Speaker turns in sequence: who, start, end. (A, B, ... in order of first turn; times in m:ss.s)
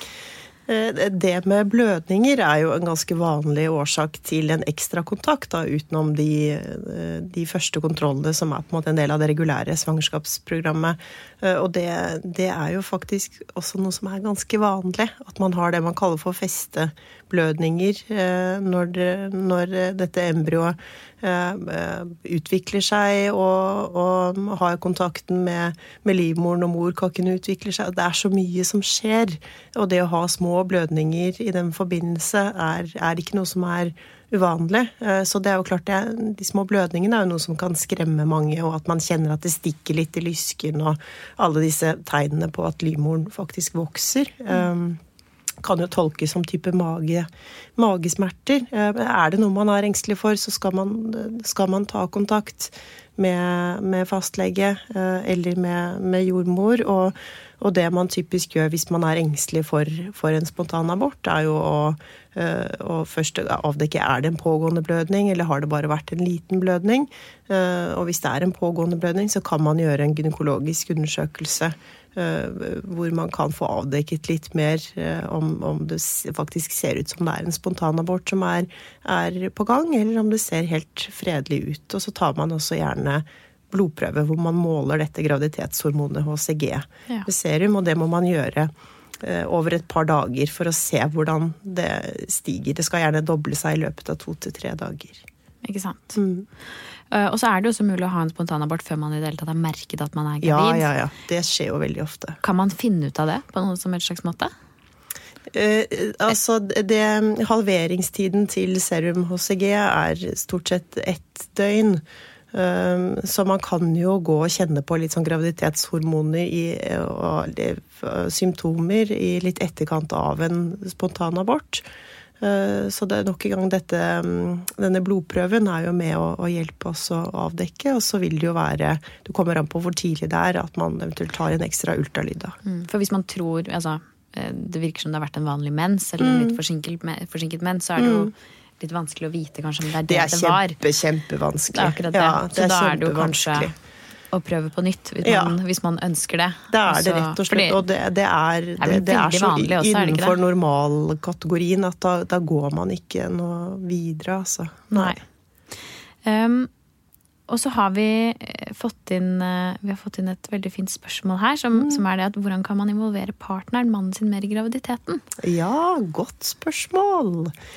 0:00.7-0:45.0 A
0:45.6-0:47.2 A
0:47.8-1:35.2 A
1:35.6-1:36.2 B
1:36.2-1:36.4 A
1:37.1-1:40.9 B
1:40.4-1:42.4 A
1:42.4-1:44.5 B
1:45.5-2:01.8 A
2:02.4-2:12.6 A
2:12.6-2:20.8 B
2:16.2-2:16.6 A
2:18.0-2:18.3 A
2:20.1-2:23.7 A
2:21.7-2:23.7 B
2:24.3-2:27.8 B
2:25.2-2:25.6 A
2:26.7-2:35.1 A
2:28.8-2:30.4 B
2:34.9-2:35.2 B
2:36.2-2:36.7 B
2:37.5-2:45.2 B
2:41.8-2:42.0 A
2:45.4-2:47.5 A